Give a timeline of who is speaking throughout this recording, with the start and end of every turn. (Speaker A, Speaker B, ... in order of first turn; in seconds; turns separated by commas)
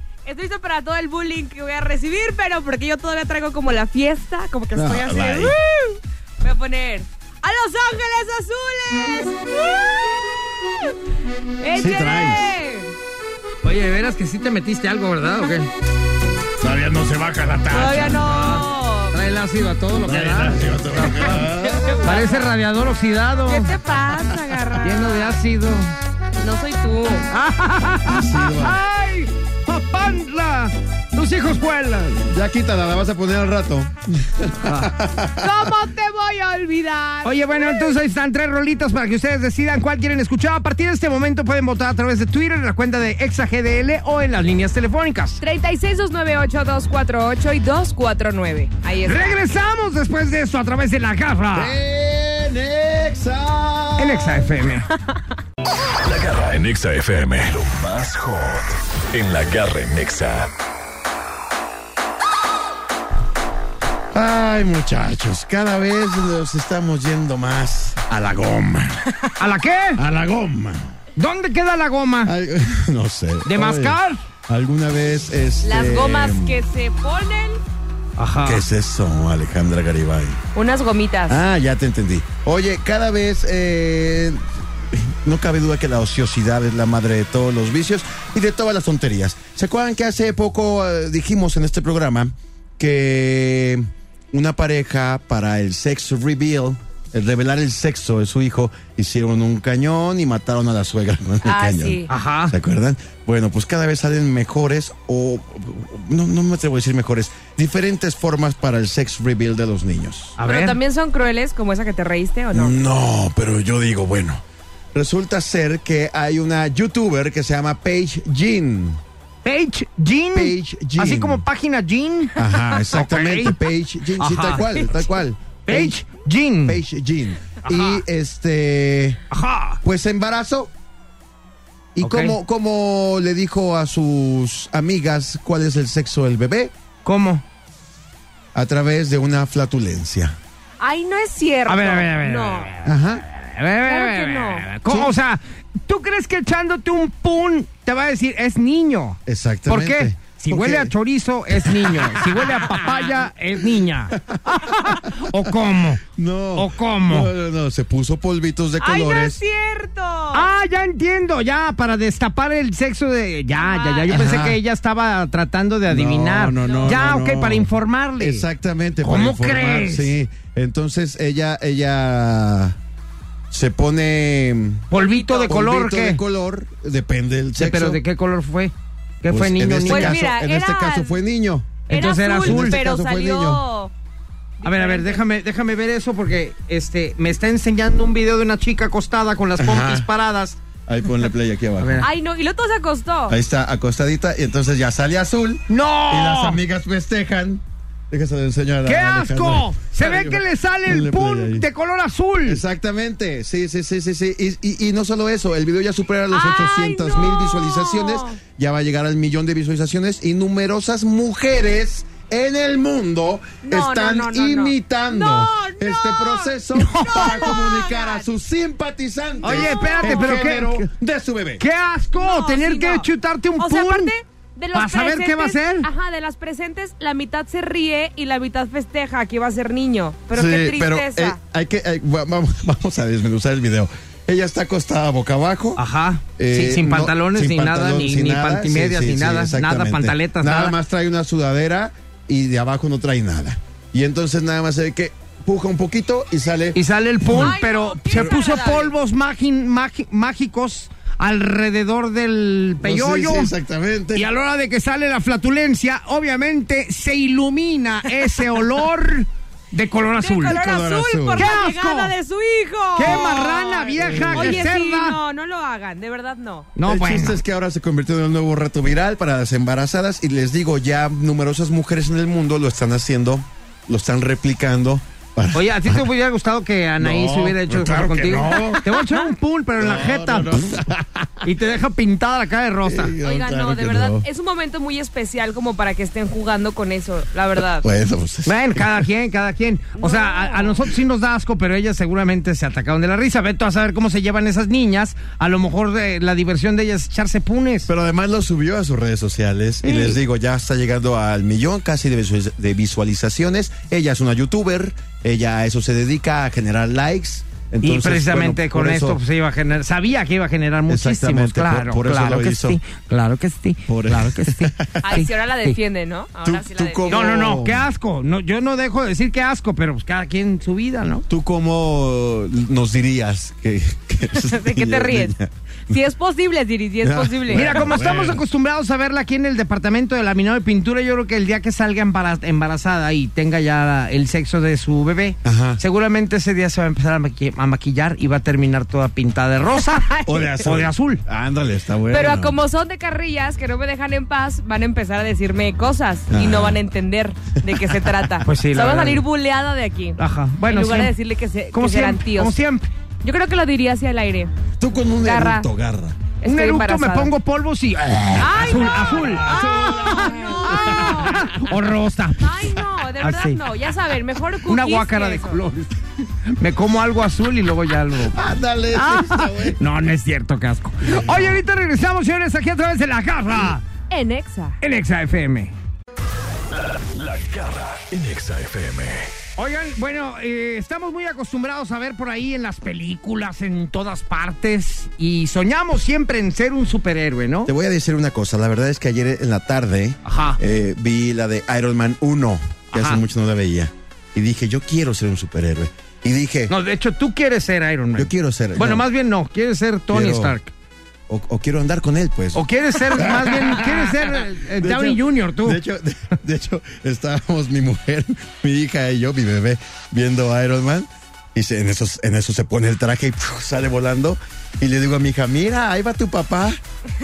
Speaker A: 0.2-10.9, Speaker B: 4.7-5.5, Speaker A: 11.6-12.9, Speaker B: 11.7-12.5, Speaker C: 13.6-15.7, Speaker B: 16.6-18.3, Speaker A: 17.7-19.2, Speaker C: 18.1-21.4, Speaker B: 20.0-22.2, Speaker A: 21.4-22.3, Speaker C: 22.0-23.7, Speaker A: 23.5-25.4, Speaker C: 24.8-25.9, Speaker A: 26.4-27.3, Speaker C: 27.3-32.2, Speaker B: 28.1-28.8, Speaker B: 32.3-35.7, Speaker C: 34.6-34.9, Speaker A: 35.4-38.0, Speaker C: 37.2-45.4, Speaker A: 45.4-49.4, Speaker C: 49.0-51.8, Speaker B: 51.5-54.5, Speaker C: 54.0-54.9, Speaker D: 56.0-60.5, Speaker B: 64.1-69.1, Speaker C: 69.4-70.0, Speaker B: 70.0-70.9, Speaker C: 71.2-72.3, Speaker B: 72.2-76.6, Speaker C: 73.4-74.2, Speaker A: 75.6-77.6, Speaker C: 78.2-78.6, Speaker B: 78.4-80.4, Speaker A: 80.5-81.4, Speaker B: 81.3-110.4, Speaker A: 101.4-102.1, Speaker C: 102.1-102.5, Speaker C: 110.4-110.8, Speaker A: 110.5-112.8, Speaker B: 112.5-114.4, Speaker B: 114.9-119.0, Speaker C: 119.4-122.4, Speaker B: 120.3-121.5, Speaker B: 122.3-126.0, Speaker C: 122.9-123.6, Speaker C: 124.2-124.7, Speaker A: 124.7-125.0, Speaker C: 125.6-126.8, Speaker B: 126.6-129.2, Speaker C: 127.6-128.0, Speaker C: 129.3-129.8, Speaker B: 129.8-130.7, Speaker B: 131.9-136.7, Speaker C: 132.0-132.3, Speaker C: 137.0-137.4, Speaker B: 138.5-140.4, Speaker A: 140.8-142.7, Speaker C: 141.7-156.0, Speaker B: 142.8-143.2, Speaker A: 143.8-144.7, Speaker B: 144.9-145.1, Speaker B: 149.2-150.9, Speaker B: 151.5-159.4, Speaker C: 156.6-157.3, Speaker A: 158.8-160.5, Speaker C: 160.3-168.5, Speaker A: 163.5-164.2, Speaker B: 164.1-164.6, Speaker B: 165.9-172.8, Speaker A: 166.6-166.9, Speaker C: 169.0-170.2, Speaker B: 173.5-174.9, Speaker C: 174.9-176.2, Speaker A: 174.9-175.6, Speaker B: 175.4-178.0, Speaker C: 177.6-180.2, Speaker B: 179.3-183.6, Speaker A: 179.9-181.2, Speaker C: 181.9-182.8, Speaker A: 181.9-183.9, Speaker A: 184.6-185.2, Speaker C: 184.6-190.6, Speaker B: 189.6-190.1, Speaker B: 190.8-192.1, Speaker C: 191.8-192.1, Speaker A: 192.0-193.4, Speaker B: 193.3-201.7, Speaker C: 195.7-196.6, Speaker C: 198.8-202.6, Speaker B: 202.4-221.6, Speaker A: 206.3-208.4, Speaker A: 213.6-218.3, Speaker C: 216.7-217.6, Speaker C: 219.4-220.9, Speaker A: 219.4-220.6, Speaker C: 221.6-224.1, Speaker A: 222.2-223.1, Speaker A: 223.6-231.4, Speaker C: 224.7-225.9, Speaker B: 230.3-235.8, Speaker C: 235.8-240.8, Speaker B: 236.4-247.6, Speaker C: 246.7-253.5, Speaker A: 247.3-248.9, Speaker B: 248.1-248.4, Speaker B: 252.8-254.3, Speaker C: 254.1-260.6, Speaker A: 260.2-266.7, Speaker B: 260.4-261.5, Speaker C: 261.4-262.1, Speaker C: 262.9-265.2, Speaker B: 263.9-264.7, Speaker C: 266.8-267.4, Speaker B: 266.9-276.1, Speaker C: 275.5-280.8, Speaker B: 277.0-279.0, Speaker B: 279.8-281.5, Speaker C: 281.4-283.1, Speaker B: 282.8-284.2, Speaker A: 283.2-287.9, Speaker B: 287.6-289.1, Speaker C: 288.4-297.9, Speaker A: 290.0-290.8, Speaker B: 297.9-309.2, Speaker C: 299.8-300.1, Speaker C: 307.8-315.8, Speaker B: 310.9-312.8, Speaker B: 313.9-315.2, Speaker A: 315.0-317.2, Speaker B: 316.4-317.9, Speaker C: 317.1-321.2, Speaker B: 321.3-326.0, Speaker A: 324.3-325.3, Speaker A: 325.9-327.9, Speaker B: 327.0-328.4, Speaker C: 327.5-341.2, Speaker B: 335.4-335.8, Speaker A: 339.8-340.5, Speaker B: 340.2-342.6, Speaker A: 342.1-352.6, Speaker B: 346.3-346.8, Speaker B: 347.7-348.4, Speaker C: 348.4-349.2, Speaker C: 350.2-351.1, Speaker C: 351.7-352.9, Speaker A: 353.2-354.5, Speaker B: 354.8-356.3, Speaker A: 355.2-355.7, Speaker A: 356.4-357.3, Speaker C: 356.4-359.5, Speaker A: 358.4-361.6, Speaker B: 358.5-361.4, Speaker C: 360.3-363.6, Speaker A: 362.4-365.6, Speaker C: 364.6-365.9, Speaker C: 366.6-368.4, Speaker B: 368.2-369.8, Speaker C: 368.9-373.8, Speaker B: 371.0-371.6, Speaker A: 374.1-374.8, Speaker C: 374.8-375.7, Speaker D: 376.7-379.3, Speaker C: 379.6-387.7, Speaker B: 387.7-396.7, Speaker C: 390.2-390.6, Speaker C: 392.9-393.2, Speaker C: 396.7-400.7, Speaker B: 398.1-399.1, Speaker B: 400.1-400.6, Speaker B: 401.3-416.8, Speaker C: 402.5-405.8